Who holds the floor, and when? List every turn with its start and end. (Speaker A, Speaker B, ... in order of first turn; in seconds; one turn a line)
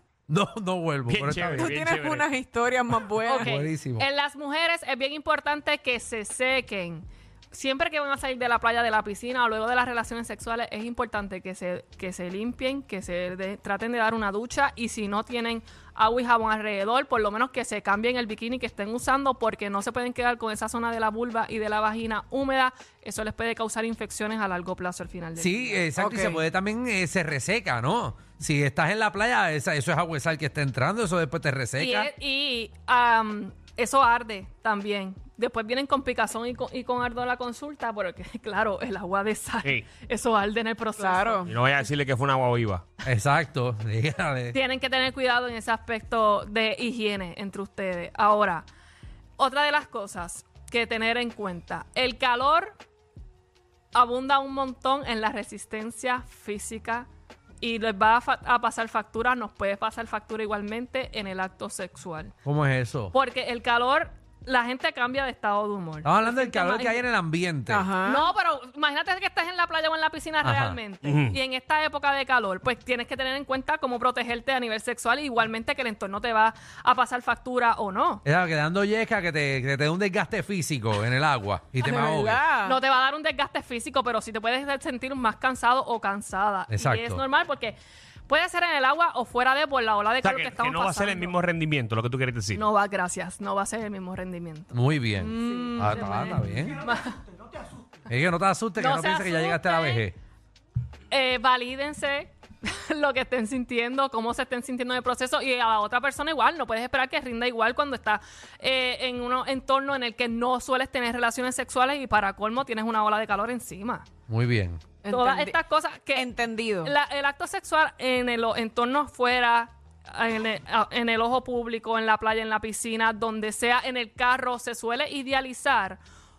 Speaker A: 0.3-1.7
Speaker B: 1.1-2.3
Speaker C: 1.6-3.5
Speaker D: 3.3-25.8
Speaker A: 3.3-4.1
Speaker A: 25.4-32.1
Speaker C: 26.0-26.4
Speaker D: 31.8-41.5
Speaker C: 41.0-41.5
Speaker B: 41.5-42.8
Speaker A: 43.0-44.6
Speaker D: 44.5-48.7
Speaker D: 49.4-52.8
Speaker D: 53.9-57.1
Speaker D: 57.6-62.3
Speaker A: 62.5-63.1
Speaker D: 63.1-67.0
Speaker A: 66.0-67.9
Speaker C: 67.7-68.2
Speaker D: 68.0-78.2
Speaker A: 70.4-70.8
Speaker B: 71.0-71.4
Speaker A: 78.2-82.4
Speaker C: 81.8-82.8
Speaker D: 82.7-91.4
Speaker A: 86.7-87.2
Speaker B: 90.2-92.6
Speaker D: 92.5-97.2
Speaker A: 94.7-96.8
Speaker C: 95.2-96.0
Speaker A: 98.1-100.2
Speaker D: 98.8-100.1
Speaker D: 101.1-114.1
Speaker A: 114.3-114.8
Speaker C: 115.0-115.6
Speaker D: 115.1-116.3
Speaker C: 116.1-116.9
Speaker D: 116.8-126.0